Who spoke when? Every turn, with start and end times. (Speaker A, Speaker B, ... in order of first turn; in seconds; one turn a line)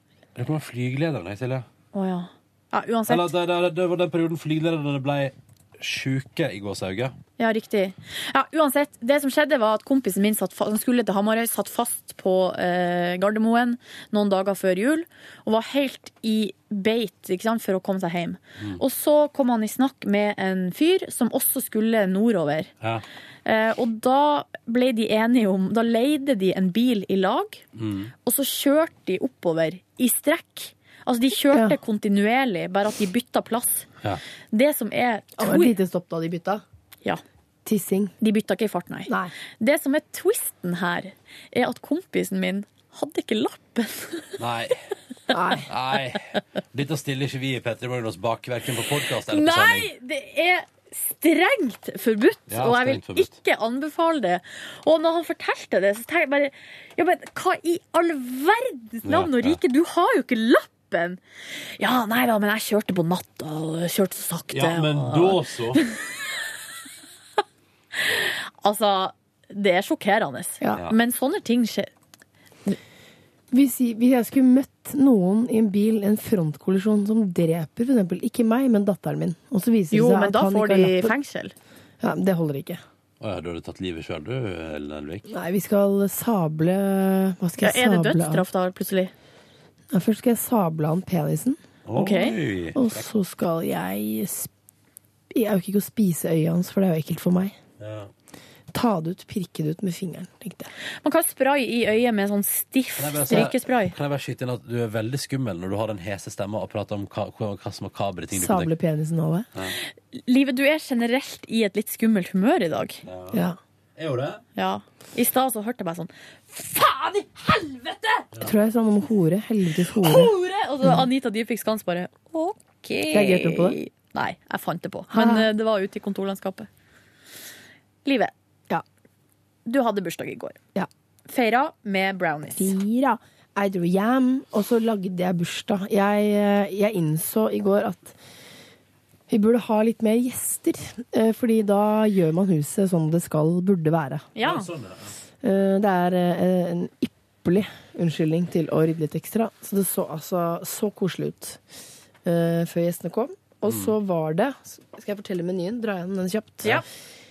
Speaker A: 0.3-1.6
Speaker B: 1.9-3.3
Speaker A: 3.1-7.1
Speaker B: 7.4-22.7
Speaker B: 23.4-27.6
Speaker A: 27.8-28.1
Speaker B: 28.2-33.9
Speaker B: 34.5-35.8
Speaker C: 35.4-36.6
Speaker C: 37.6-38.1
Speaker B: 38.2-44.4
Speaker C: 39.1-39.3
Speaker A: 44.4-44.8
Speaker C: 45.3-45.6
Speaker A: 45.6-49.9
Speaker B: 49.3-61.2
Speaker A: 52.5-53.3
Speaker A: 59.0-59.6
Speaker B: 61.8-66.0
Speaker A: 64.5-65.8
Speaker B: 68.0-71.9
Speaker C: 73.5-81.1
Speaker B: 79.9-81.5
Speaker C: 82.0-82.8
Speaker A: 83.2-85.3
Speaker C: 85.3-88.5
Speaker B: 87.6-89.1
Speaker C: 89.9-91.6
Speaker A: 91.8-93.0
Speaker B: 92.0-92.3
Speaker C: 92.7-94.5
Speaker C: 95.3-97.5
Speaker A: 97.8-98.1
Speaker C: 98.7-100.7
Speaker B: 101.0-103.9
Speaker A: 103.0-108.7
Speaker C: 108.3-109.5
Speaker B: 109.8-113.0
Speaker A: 113.0-113.4
Speaker C: 113.3-113.6
Speaker A: 114.0-114.4
Speaker B: 114.5-118.3
Speaker C: 118.4-121.0
Speaker B: 120.0-126.7
Speaker C: 123.1-123.8
Speaker C: 125.1-125.5
Speaker B: 128.0-128.3
Speaker B: 129.7-130.6
Speaker B: 131.3-132.7
Speaker C: 132.5-138.2
Speaker C: 139.3-144.3
Speaker B: 144.3-144.7
Speaker A: 144.4-145.1
Speaker C: 145.4-151.6
Speaker C: 152.2-156.8
Speaker A: 153.7-153.9